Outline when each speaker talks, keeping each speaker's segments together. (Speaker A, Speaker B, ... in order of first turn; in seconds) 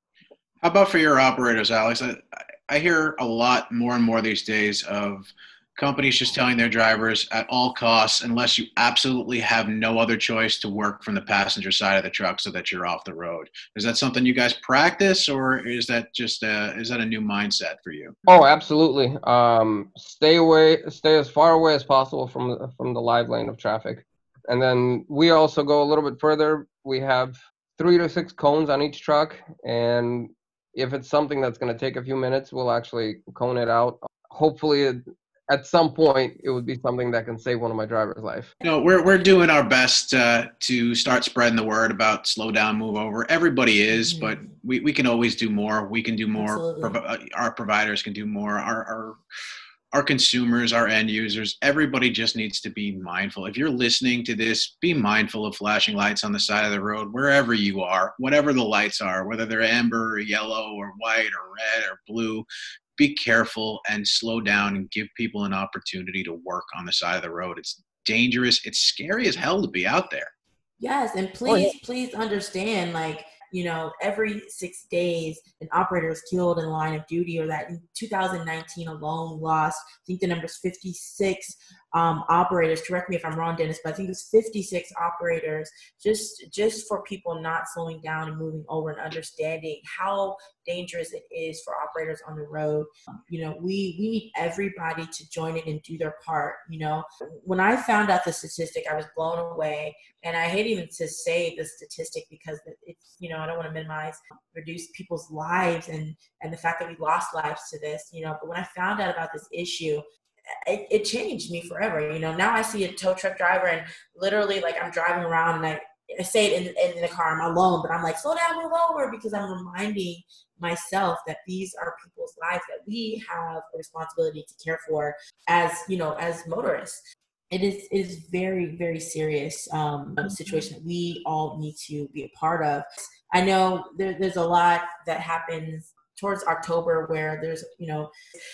Speaker A: 0.6-18.1, 38.6-49.2, 49.9-70.3
Speaker B: 18.2-38.5, 71.5-71.7
Speaker C: 44.1-44.5, 46.3-47.0, 70.8-110.0, 110.6-138.1